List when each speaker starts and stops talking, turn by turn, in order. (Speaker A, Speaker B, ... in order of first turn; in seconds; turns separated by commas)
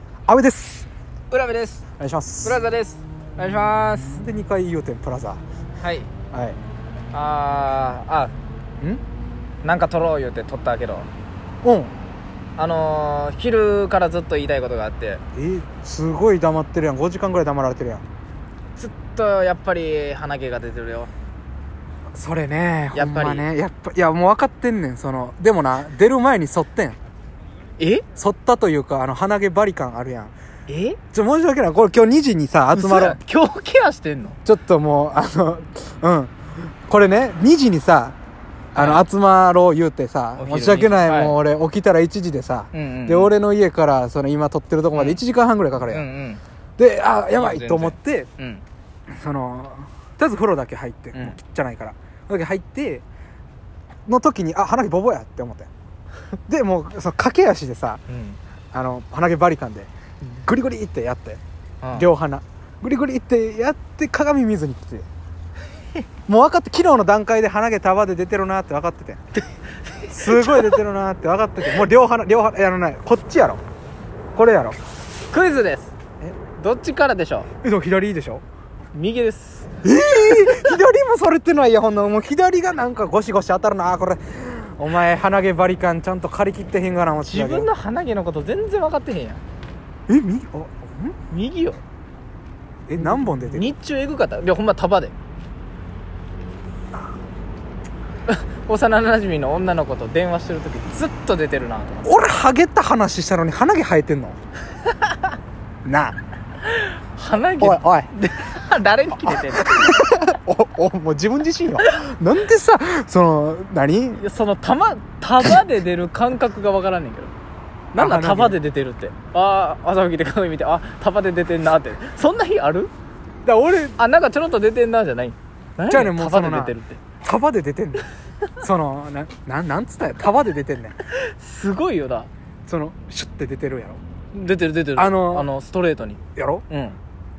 Speaker A: 0.3-0.9, Speaker B: 1.3-1.9, Speaker A: 2.0-2.6, Speaker B: 2.4-4.2, Speaker A: 3.9-5.4, Speaker B: 5.8-6.1, Speaker A: 6.3-6.6, Speaker B: 7.1-8.3, Speaker B: 9.6-11.1, Speaker A: 11.6-11.9, Speaker B: 12.6-15.2, Speaker A: 15.3-18.0, Speaker B: 18.8-21.1, Speaker A: 22.1-27.0, Speaker B: 22.9-23.5, Speaker B: 27.8-28.1, Speaker A: 28.1-30.3, Speaker B: 30.7-31.0, Speaker A: 31.1-33.2, Speaker B: 32.7-34.4, Speaker A: 34.5-38.2, Speaker A: 38.7-46.0, Speaker B: 38.8-39.0, Speaker B: 40.4-41.4, Speaker B: 42.7-43.3, Speaker B: 45.0-45.2, Speaker B: 45.9-46.4, Speaker A: 46.8-48.3, Speaker B: 47.3-48.6, Speaker A: 49.1-53.0, Speaker A: 54.1-55.7, Speaker A: 56.5-58.0, Speaker B: 58.1-58.4, Speaker A: 58.7-61.4, Speaker B: 61.8-62.1, Speaker A: 61.9-65.1, Speaker A: 66.3-69.2, Speaker B: 69.9-70.8, Speaker A: 70.1-73.6, Speaker A: 74.3-74.8, Speaker B: 75.3-76.0, Speaker B: 76.6-77.5, Speaker A: 77.6-78.4, Speaker B: 78.9-79.7, Speaker A: 79.8-87.7, Speaker B: 80.2-80.8, Speaker B: 87.3-89.4, Speaker A: 90.1-91.2, Speaker B: 91.3-91.8, Speaker A: 92.9-93.7, Speaker B: 93.0-95.1, Speaker B: 98.3-102.2, Speaker A: 102.0-104.4, Speaker B: 104.8-105.3, Speaker A: 105.8-106.2, Speaker B: 106.6-110.1, Speaker A: 107.6-108.1, Speaker A: 109.2-114.3, Speaker B: 114.2-117.3, Speaker A: 117.9-118.6, Speaker B: 117.9-122.9, Speaker A: 123.5-124.0, Speaker B: 124.0-127.0, Speaker A: 125.9-131.0, Speaker B: 131.1-132.3, Speaker A: 132.7-134.0, Speaker B: 134.3-137.0, Speaker A: 134.9-135.5, Speaker A: 136.4-136.6